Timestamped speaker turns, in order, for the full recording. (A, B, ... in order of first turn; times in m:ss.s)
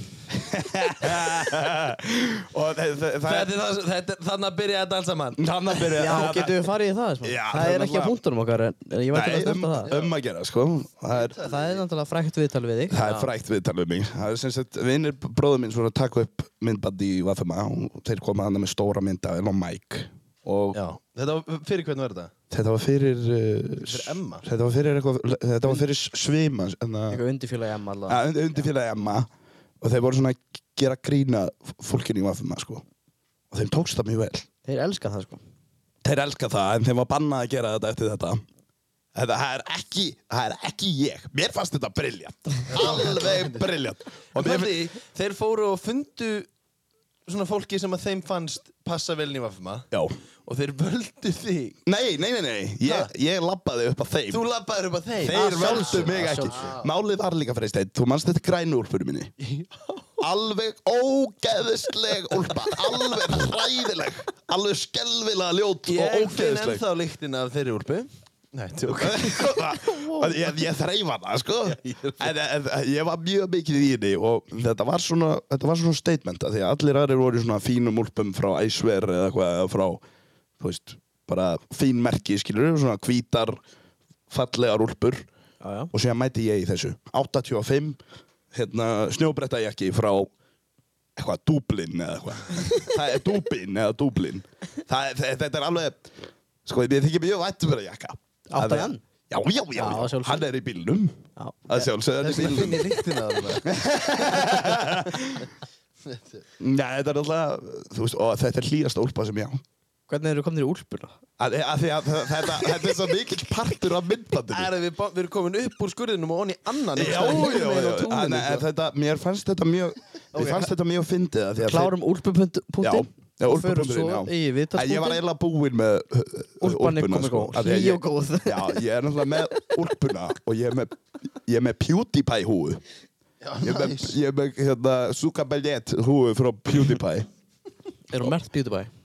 0:00.3-0:03.5 A
0:03.2-0:06.1 B
0:05.4-0:06.7 A
0:06.0-0:09.9 C
0:07.2-0:08.2 A
0:09.1-0:11.4 A
0:09.8-0:10.1 B
0:11.1-0:11.8 B
0:11.4-0:13.0 C
0:12.9-0:20.8 A
0:13.0-0:13.3 B
0:20.7-0:22.3 B
0:22.5-0:27.2 A
0:23.8-0:24.5 B
0:27.1-0:28.2 C
0:28.1-0:29.3 A
0:29.8-0:32.8 A
0:33.5-0:34.5 A
0:34.6-0:35.4 C
0:36.0-0:38.4 A
0:39.2-0:44.8 A
0:42.7-0:43.7 B
0:44.3-0:46.5 B
0:47.3-0:49.9 B
0:50.5-0:51.8 B
0:51.9-0:54.4 A
0:52.8-0:53.1 B
0:54.3-0:56.9 B
0:55.2-0:59.3 A
0:55.4-0:56.6 C
0:59.4-1:00.0 B
1:00.2-1:06.8 A
1:05.9-1:09.7 B
1:08.9-1:20.0 A
1:11.7-1:12.3 B
1:20.6-1:23.6 A
1:24.3-1:25.3 A
1:25.6-1:25.9 C
1:25.9-1:28.0 A
1:28.5-1:30.3 A
1:31.2-1:36.1 A
1:36.6-1:42.8 A
1:38.5-1:39.0 C
1:39.8-1:40.5 C
1:41.4-1:41.8 C
1:42.2-1:44.8 B
1:43.6-1:45.5 A
1:46.0-1:46.4 B
1:46.6-1:49.6 A
1:50.1-1:51.1 C
1:51.4-1:54.7 A
1:54.5-1:58.6 B
1:57.0-2:01.9 A
1:57.0-1:57.8 C
2:00.4-2:00.7 C
2:01.6-2:05.2 C
2:02.8-2:12.8 A
2:06.6-2:08.8 C
2:09.4-2:09.7 C
2:13.4-2:14.2 B
2:13.6-2:17.3 A
2:18.1-2:18.9 C